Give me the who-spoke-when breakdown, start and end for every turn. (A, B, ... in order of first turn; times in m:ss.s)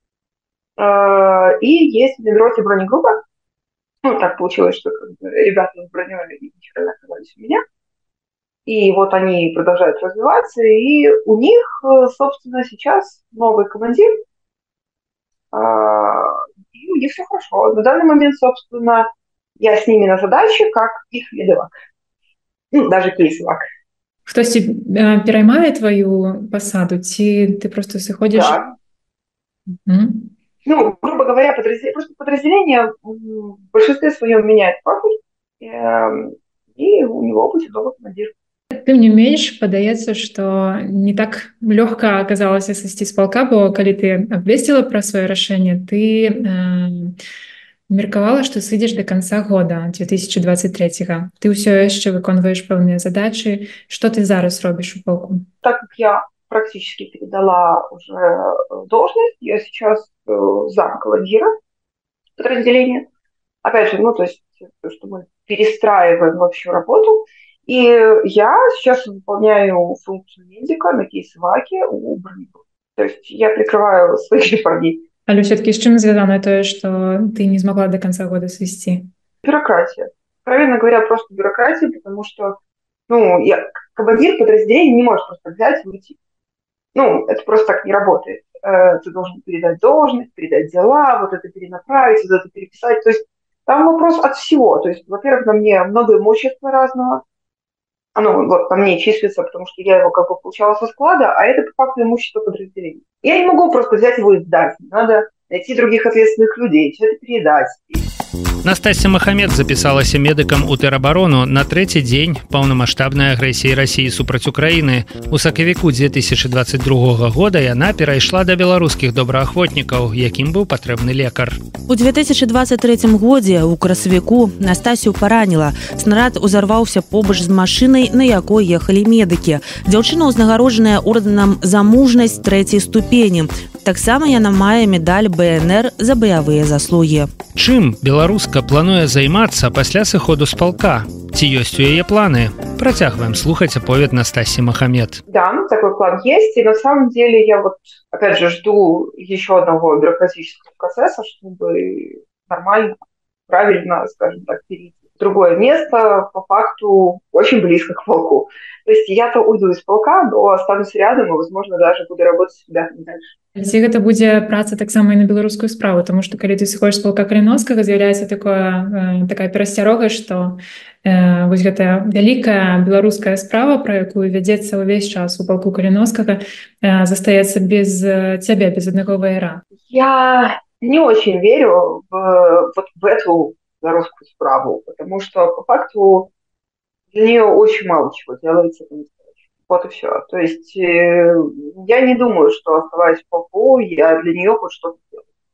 0:00.8-0:03.2 A
0:04.0-0:07.6 A
0:08.7-0:14.2 A
0:15.5-0:21.7 A
0:22.7-0:23.6 A
0:24.3-0:28.6 B
0:28.3-0:28.7 A
0:29.9-0:30.3 B
0:30.6-0:38.3 A
0:38.7-0:47.2 B
0:47.9-0:55.4 B
0:55.6-1:01.5 A
1:02.4-1:03.1 A
1:03.6-1:15.0 A
1:15.3-1:19.1 B
1:19.4-1:22.6 A
1:23.1-1:26.2 A
1:27.0-1:37.2 A
1:38.2-1:48.1 A
1:48.6-2:01.6 C
2:01.9-2:17.3 D
2:17.6-2:25.2 C
2:25.3-2:43.4 A
2:43.6-2:59.6 B
2:59.8-3:06.3 A
3:07.1-3:15.2 A